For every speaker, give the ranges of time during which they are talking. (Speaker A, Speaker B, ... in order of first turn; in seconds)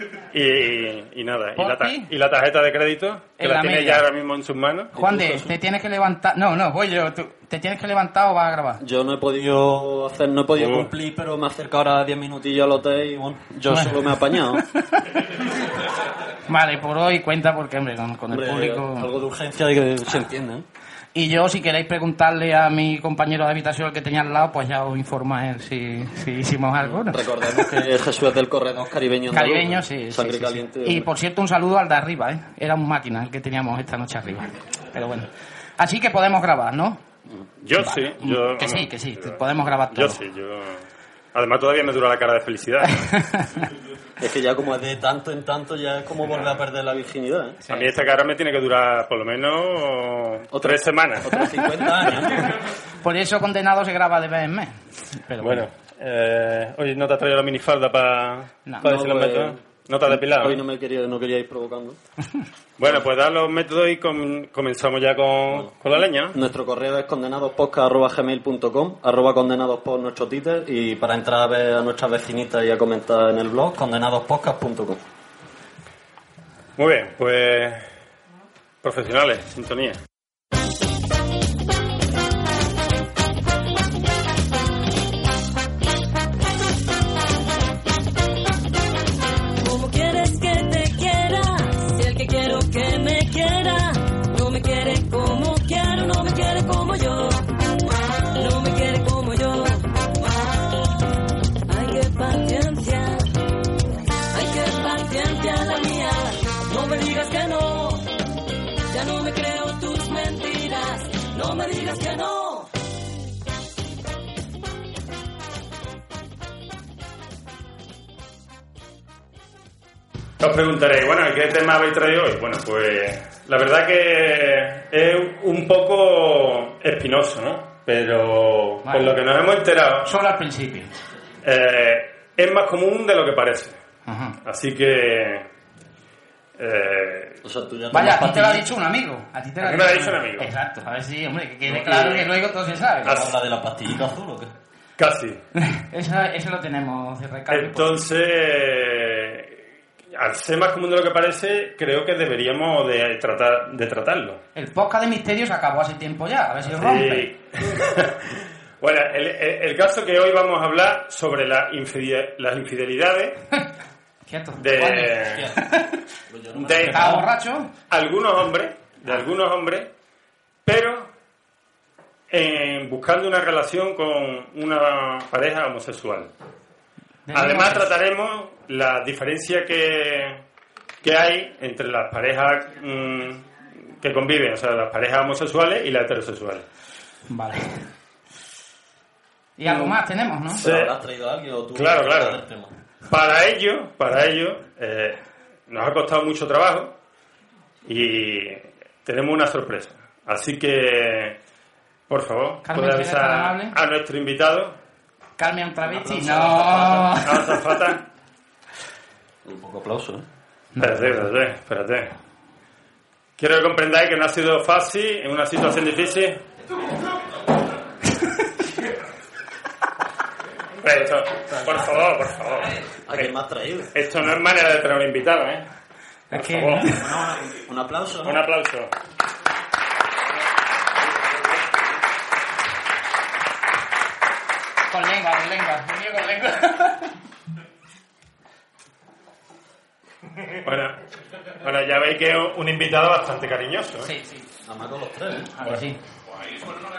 Speaker A: 0.3-5.0, 10.5-10.9, 37.6-39.4, 39.9-43.1, 47.7-51.3, 55.4-60.6, 62.8-66.4, 76.8-77.8, 78.8-80.0, 120.4-130.1, 131.4-133.8, 134.4-135.5, 136.6-137.4, 139.6-140.5, 141.7-142.3, 143.0-143.3, 145.0-145.4, 147.5-149.6, 150.1-154.4, 156.7-163.4, 164.6-165.5, 166.5-167.3, 167.9-169.9, 170.6-171.1, 172.3-176.3, 177.3-180.4, 181.0-186.7, 189.7-190.0, 190.6-190.9, 191.7-192.4, 193.1-196.9, 197.8-201.4, 202.1-204.8, 207.2-208.1, 210.8-212.1, 213.4-216.4, 220.8-223.3, 223.9-225.7, 226.3-227.1, 228.2-228.9, 240.6-241.0, 241.6-244.1
Speaker B: 1.6-2.1, 3.4-4.0, 4.9-8.8, 13.7-15.0, 16.5-19.1, 21.1-27.7, 29.3-37.0, 37.8-40.2, 43.0-43.6, 47.6-47.9, 53.0-55.6, 128.8-129.2, 130.0-130.9, 134.1-134.4, 137.9-143.2, 145.6-147.9, 154.5-157.3, 164.2-166.0, 166.8-167.7, 177.2-177.9, 187.3-187.7, 189.6-190.6, 202.6-203.7, 205.4-207.6, 210.7-211.2, 226.3-227.4, 234.9-237.1, 244.0-244.5, 245.6-246.0
Speaker C: 4.9-5.6, 8.8-14.6, 18.3-20.6, 26.8-31.1, 44.2-47.6, 50.5-52.6, 58.8-62.0, 66.3-75.0, 137.4-138.7, 143.0-144.5, 164.8-165.6, 166.3-167.2, 190.5-192.7, 205.8-207.2, 209.4-210.2, 221.5-221.9, 223.1-223.9, 227.0-228.4, 244.7-245.5
Speaker D: 89.8-91.2, 92.1-93.7, 94.5-97.0, 98.5-99.2, 101.8-102.8, 104.6-106.1, 106.8-107.9, 109.1-110.9, 111.4-112.6